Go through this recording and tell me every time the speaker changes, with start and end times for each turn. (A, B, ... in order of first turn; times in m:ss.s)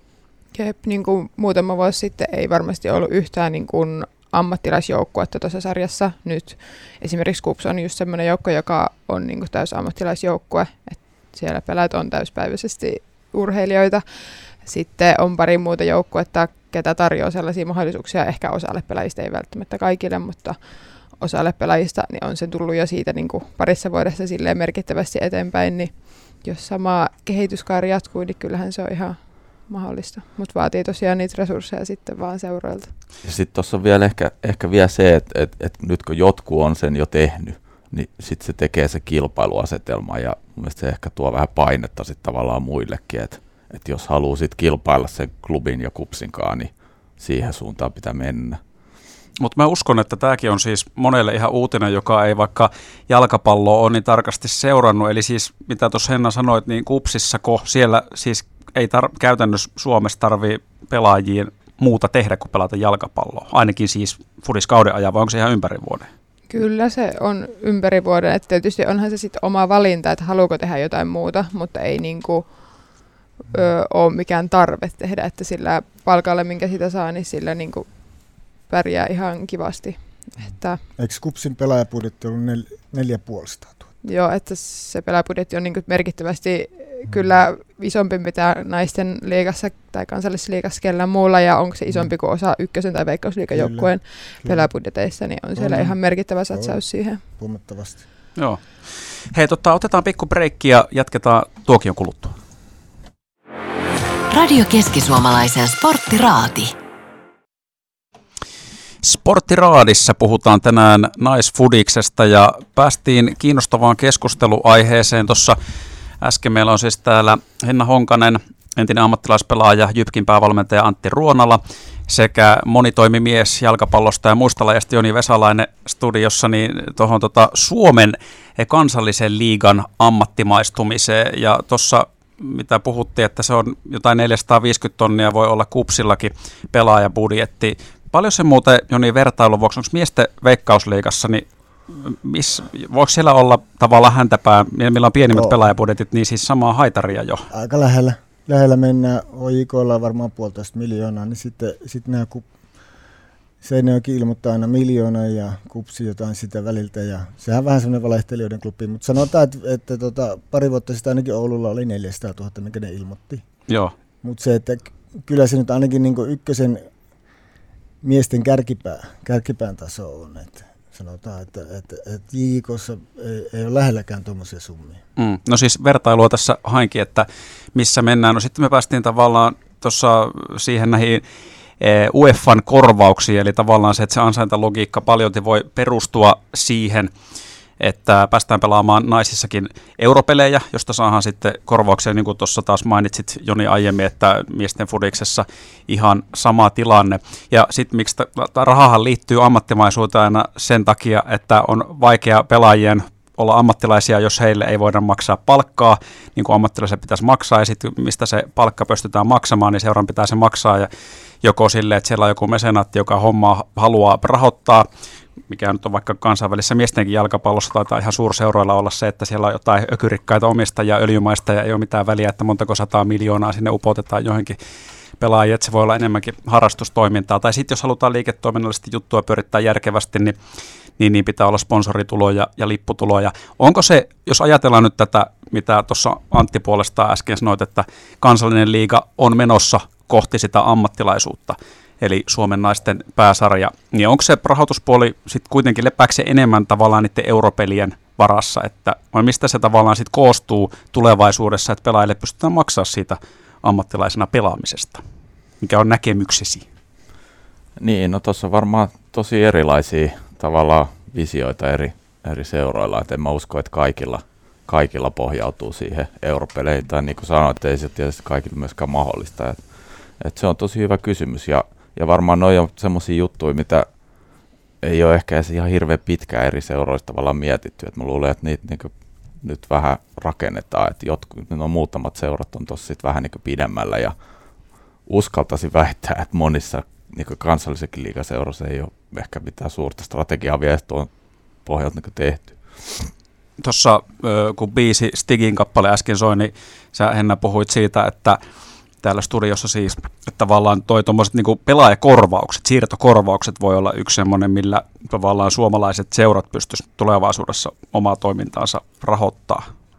0:00.5-0:14.0 A
0:14.6-0:20.6 A
0:21.1-0:32.9 A
0:33.2-0:48.6 B
0:49.4-1:06.1 C
1:06.5-1:12.5 A
1:13.5-1:17.9 A
1:18.7-1:20.8 A
1:21.0-1:23.8 D
1:24.0-1:37.2 A
1:33.5-1:33.9 D
1:34.4-1:34.7 D
1:35.6-1:36.0 D
1:36.5-1:38.0 D
1:38.4-1:38.6 C
1:39.3-1:42.4 C
1:44.3-1:46.7 E
1:49.0-1:55.6 C
1:56.2-2:27.5 C
2:27.5-2:32.5 D
2:33.6-2:43.4 D
2:43.7-2:43.9 C
2:44.2-2:46.8 D
2:48.0-2:55.0 D
2:55.2-3:01.2 C
3:01.8-3:07.1 C
3:07.8-3:30.9 C
3:31.4-3:34.8 C
3:35.5-3:44.6 C
3:45.2-3:50.4 C
3:51.0-4:15.0 C
4:15.6-4:16.7 C
4:17.8-4:29.6 B
4:30.2-4:33.9 B
4:34.8-4:38.9 B
4:39.4-4:44.1 B
4:45.1-4:51.1 B
4:51.7-4:53.1 B
4:53.6-4:58.4 C
4:59.0-5:09.7 C